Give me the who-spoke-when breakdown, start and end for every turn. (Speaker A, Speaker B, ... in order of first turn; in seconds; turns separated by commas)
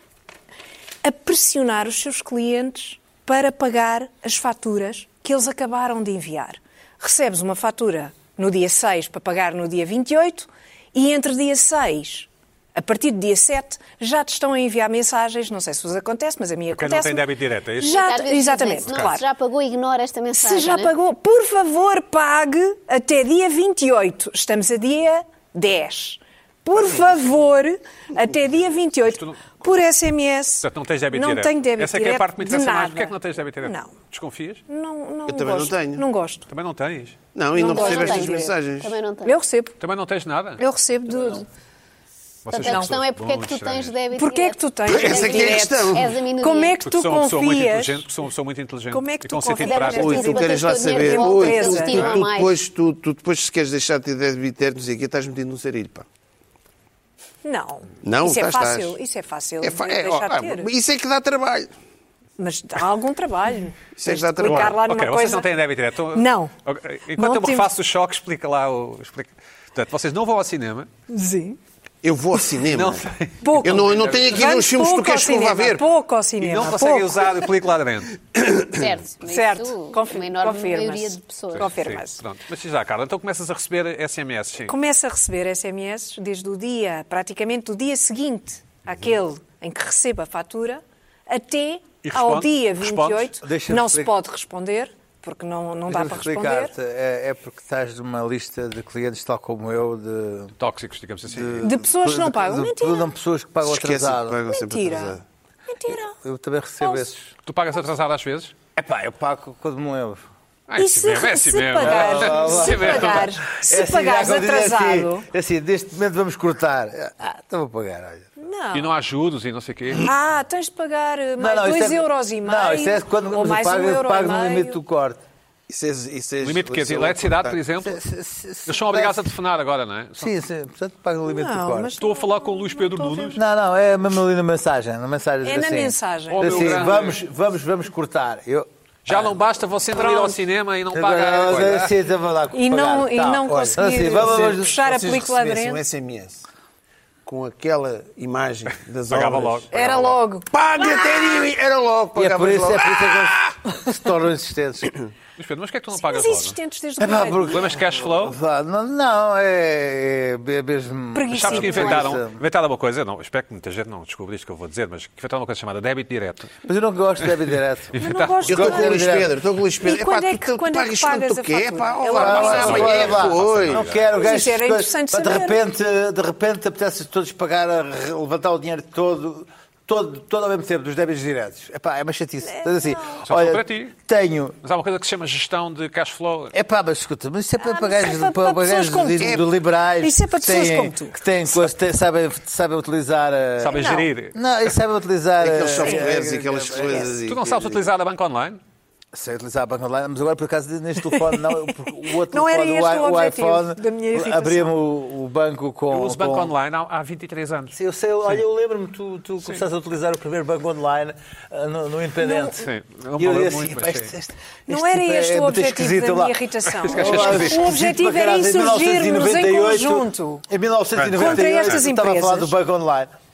Speaker A: 1.0-19.2, Speaker B: 16.7-18.1, Speaker C: 17.8-20.9, Speaker B: 18.9-19.1, Speaker A: 20.4-33.9, Speaker B: 29.0-29.4, Speaker B: 30.6-34.6, Speaker A: 34.7-36.4, Speaker D: 35.2-36.0, Speaker B: 36.5-37.2, Speaker D: 37.3-38.9, Speaker A: 37.5-38.5, Speaker C: 37.6-39.4, Speaker A: 39.2-39.8, Speaker B: 39.8-40.6, Speaker A: 40.6-41.5, Speaker B: 42.4-43.9, Speaker C: 42.5-46.8, Speaker A: 42.6-42.9, Speaker A: 44.1-48.0, Speaker D: 44.8-46.1, Speaker B: 46.8-50.0, Speaker A: 48.9-52.1, Speaker C: 49.6-52.6, Speaker D: 49.8-56.0, Speaker B: 51.9-52.2, Speaker A: 57.4-60.7, Speaker D: 58.0-59.0, Speaker D: 59.6-61.7, Speaker A: 62.4-66.5, Speaker D: 64.0-64.8, Speaker B: 64.4-70.9, Speaker A: 67.2-67.7, Speaker A: 71.1-71.6, Speaker D: 72.0-75.8, Speaker B: 72.7-74.4, Speaker A: 73.4-77.3, Speaker B: 76.4-78.2, Speaker D: 78.3-78.8, Speaker C: 78.8-81.7, Speaker A: 79.3-82.2, Speaker B: 81.5-84.7, Speaker A: 84.7-96.7, Speaker B: 92.0-93.3, Speaker E: 93.4-94.1, Speaker E: 95.9-100.5, Speaker B: 100.6-101.7, Speaker D: 101.3-101.7, Speaker A: 101.6-103.1, Speaker E: 101.7-104.4, Speaker D: 103.6-105.2, Speaker A: 104.5-105.2, Speaker A: 105.7-106.2, Speaker E: 106.2-107.3, Speaker A: 106.8-107.1, Speaker B: 107.5-108.5, Speaker E: 108.8-110.2, Speaker B: 110.7-113.3, Speaker A: 110.8-115.3, Speaker E: 111.8-118.3, Speaker A: 118.4-118.9, Speaker B: 118.7-120.1, Speaker A: 120.0-124.8, Speaker E: 121.4-125.2, Speaker D: 125.7-127.6, Speaker B: 126.4-128.0, Speaker E: 127.8-129.3, Speaker B: 128.7-130.3, Speaker E: 130.2-131.9, Speaker A: 131.2-133.3, Speaker B: 132.0-133.4, Speaker E: 133.3-138.7, Speaker A: 135.4-136.8, Speaker B: 136.3-137.2, Speaker B: 139.1-141.9, Speaker E: 140.9-145.0, Speaker A: 142.5-145.8, Speaker D: 143.5-146.4, Speaker D: 147.2-149.9, Speaker B: 149.1-150.2, Speaker A: 149.7-150.4, Speaker D: 150.5-153.5, Speaker E: 152.1-154.9, Speaker B: 155.4-156.6, Speaker A: 155.9-157.7, Speaker E: 157.0-162.4, Speaker B: 157.4-158.4, Speaker A: 161.1-162.1, Speaker B: 161.3-166.5, Speaker E: 166.6-169.3, Speaker B: 167.2-168.5, Speaker A: 168.0-169.1, Speaker D: 168.5-173.9, Speaker A: 169.8-173.1, Speaker E: 172.1-184.6, Speaker B: 172.3-174.2, Speaker A: 174.2-175.6, Speaker A: 182.4-183.2, Speaker B: 183.2-183.9, Speaker B: 184.6-186.5, Speaker E: 186.5-197.1, Speaker A: 187.6-189.4, Speaker A: 190.0-191.2, Speaker B: 193.6-194.7, Speaker A: 193.7-194.1, Speaker D: 195.4-197.9, Speaker A: 195.8-196.1, Speaker B: 197.2-198.6, Speaker E: 199.1-206.5, Speaker A: 201.1-201.7, Speaker A: 202.3-204.7, Speaker B: 205.9-207.7, Speaker E: 207.7-216.3, Speaker A: 212.2-212.5, Speaker B: 212.5-214.1, Speaker A: 214.7-220.4, Speaker B: 216.7-217.6, Speaker E: 216.9-223.1, Speaker B: 220.9-221.8, Speaker A: 221.1-222.5